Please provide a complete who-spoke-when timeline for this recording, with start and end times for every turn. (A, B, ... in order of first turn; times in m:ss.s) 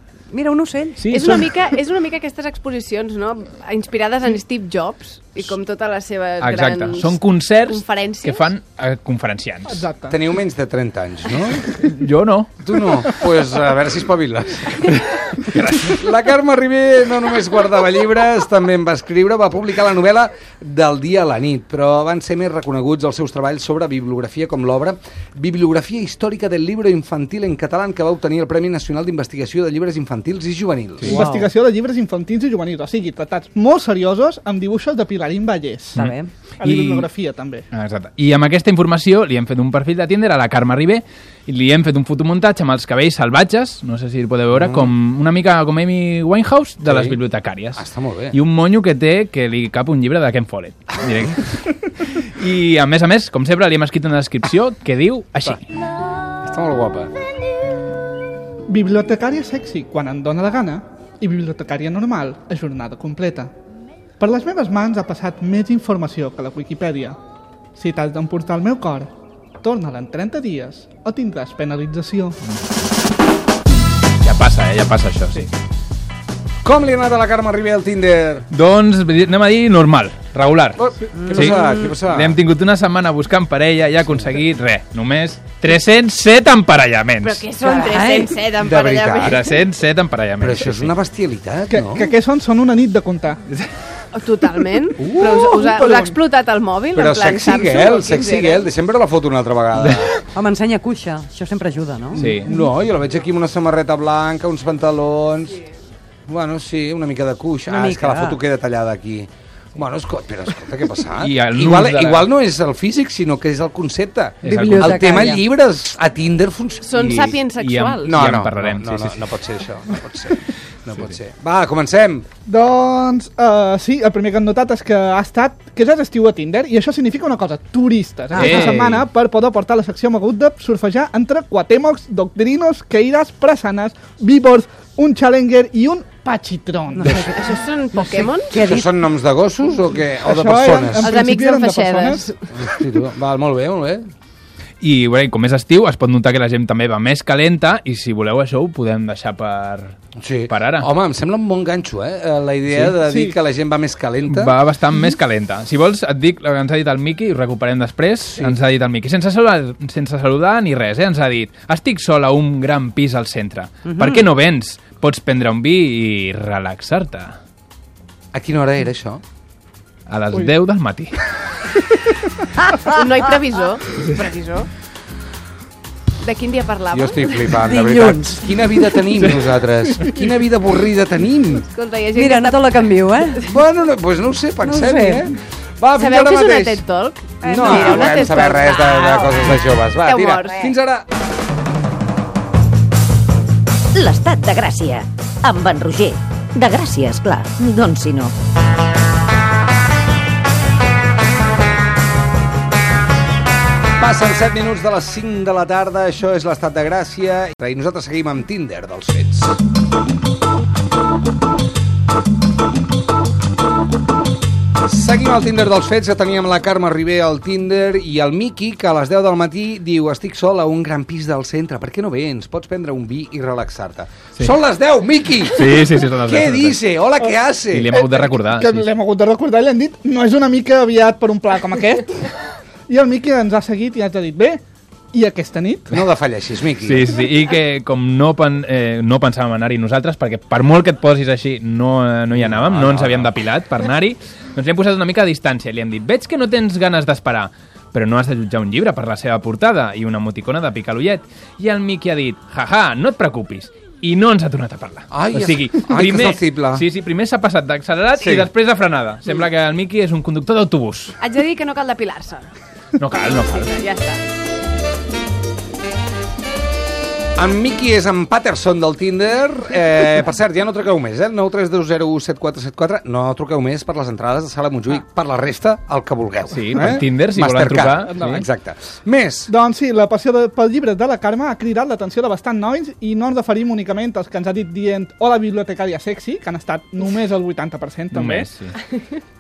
0:00.3-0:01.2 A
0:01.0-0:01.5 B
0:01.1-0:08.5 C
0:06.4-0:09.8 B
0:09.7-0:10.2 D
0:10.1-0:11.7 E
0:11.7-0:13.1 B
0:12.6-0:14.9 E
0:15.0-0:16.0 B
0:15.8-0:31.2 E
0:31.0-0:36.0 D
0:31.2-0:31.5 A
0:36.0-0:36.3 A
0:36.0-0:37.1 B
0:36.6-0:37.7 D
0:37.7-0:55.6 B
0:44.5-0:44.9 E
0:46.8-0:47.2 E
0:47.7-0:48.4 E
0:56.4-0:57.1 E
0:58.7-1:03.5 D
1:04.2-1:07.2 D
1:07.8-1:09.1 D
1:09.6-1:12.4 D
1:14.2-1:15.5 B
1:16.6-1:18.4 E
1:18.5-1:27.5 B
1:20.8-1:22.4 E
1:21.2-1:21.5 A
1:27.2-1:29.4 C
1:27.6-1:28.5 A
1:28.6-1:29.4 E
1:29.2-1:30.9 B
1:30.4-1:32.1 E
1:31.7-1:33.4 D
1:34.1-1:38.7 C
1:35.0-1:35.6 E
1:35.6-1:36.2 D
1:36.9-1:40.1 E
1:39.8-1:40.1 B
1:40.4-1:42.7 A
1:42.1-1:45.6 E
1:42.2-1:42.5 B
1:46.3-1:56.9 E
1:47.7-1:48.4 A
1:51.2-1:52.3 B
1:54.4-1:55.2 B
1:54.4-1:55.4 A
1:56.8-1:58.2 C
1:57.0-1:59.3 B
1:58.0-2:02.3 E
2:02.5-2:17.2 D
2:08.4-2:09.0 B
2:17.0-2:18.9 A
2:17.2-2:18.7 C
2:18.6-2:21.1 E
2:20.2-2:22.3 D
2:21.0-2:22.4 C
2:22.5-2:24.0 E
2:24.8-2:30.0 B
2:30.2-2:34.6 E
2:30.5-2:30.9 B
2:33.0-2:33.4 D
2:34.3-2:47.4 B
2:43.9-2:44.2 A
2:48.3-2:49.2 E
2:50.1-2:51.8 B
2:52.9-2:54.7 C
2:56.2-2:57.6 C
2:56.9-3:01.6 E
2:57.6-2:59.0 A
2:59.2-3:00.1 B
3:01.6-3:03.6 C
3:02.1-3:03.5 A
3:03.5-3:06.8 E
3:04.6-3:05.3 A
3:05.9-3:10.6 C
3:07.4-3:08.4 A
3:07.5-3:11.0 E
3:14.0-3:18.3 F
3:24.0-3:29.6 E
3:34.8-3:48.0 E
3:45.5-3:46.8 B
3:47.2-3:52.3 D
3:47.7-3:48.9 B
3:52.9-3:54.6 D
3:55.1-3:56.0 D
3:55.9-3:57.1 E
3:56.8-4:21.2 B
4:02.3-4:03.3 E
4:15.1-4:16.8 E
4:18.2-4:18.5 E
4:21.2-4:22.5 C
4:23.0-4:23.7 B
4:23.2-4:24.2 C
4:27.4-4:39.5 E
4:36.5-4:38.4 B
4:38.0-4:38.4 D
4:39.5-4:48.5 D
4:48.1-4:48.7 B